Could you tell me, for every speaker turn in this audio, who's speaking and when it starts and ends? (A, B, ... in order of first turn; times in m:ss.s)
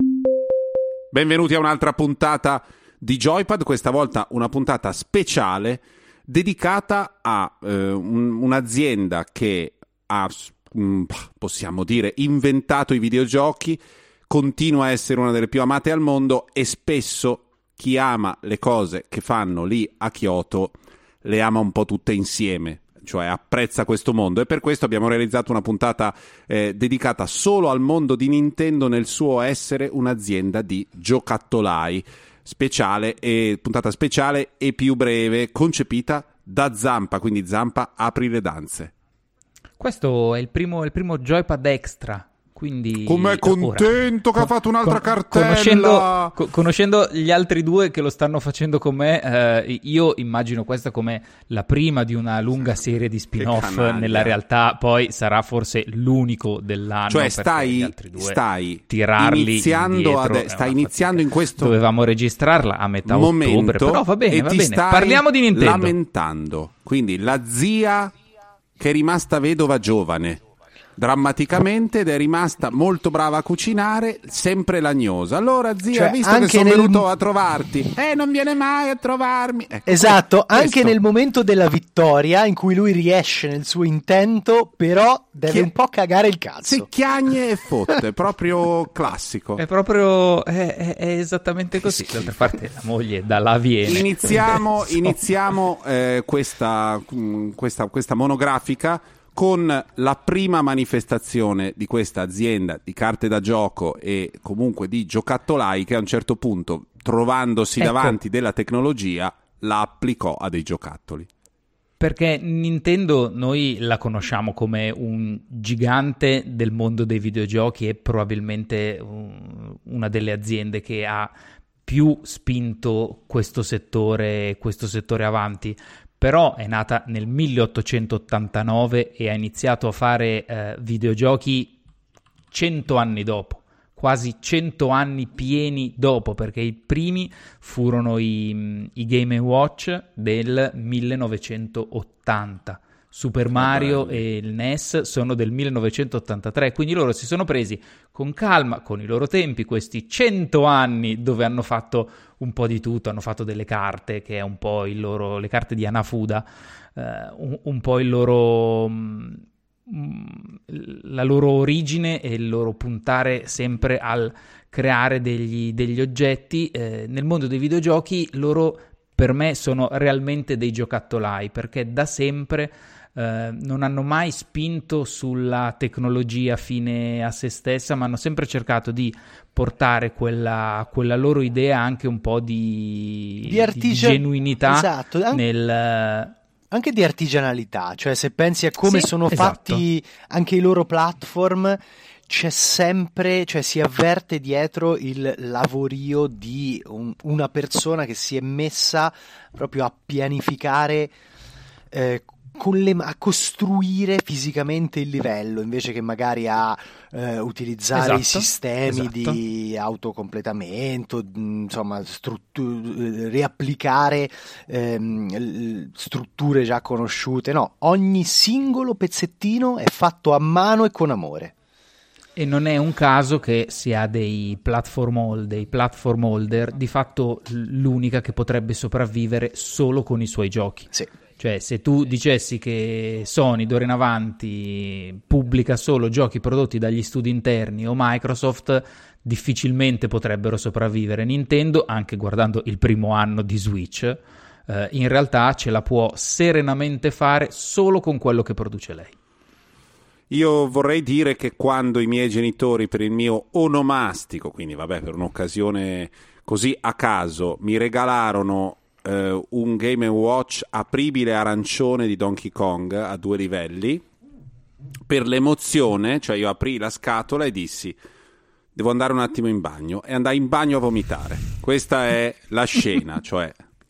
0:01.1-0:38.9 A
0:39.8-1:06.0 B
0:43.1-0:46.4 A
0:53.4-0:54.4 A
0:57.1-1:01.8 A
1:03.0-1:08.1 A
1:08.8-1:10.4 A
1:11.0-1:20.9 A
1:15.9-1:17.1 C
1:19.9-1:26.9 C
1:26.6-1:29.6 A
1:29.6-1:35.2 B
1:33.8-1:51.3 A
1:47.8-1:48.2 B
1:52.0-2:01.3 B
2:01.9-2:11.8 B
2:12.5-3:06.4 B
2:23.5-2:24.2 A
3:03.4-3:05.4 C
3:06.7-3:21.1 C
3:08.8-3:09.8 B
3:21.9-3:41.5 C
3:27.9-3:29.4 B
3:42.4-4:09.1 B
4:10.3-4:24.0 A
4:25.1-4:28.0 A
4:28.8-4:33.6 A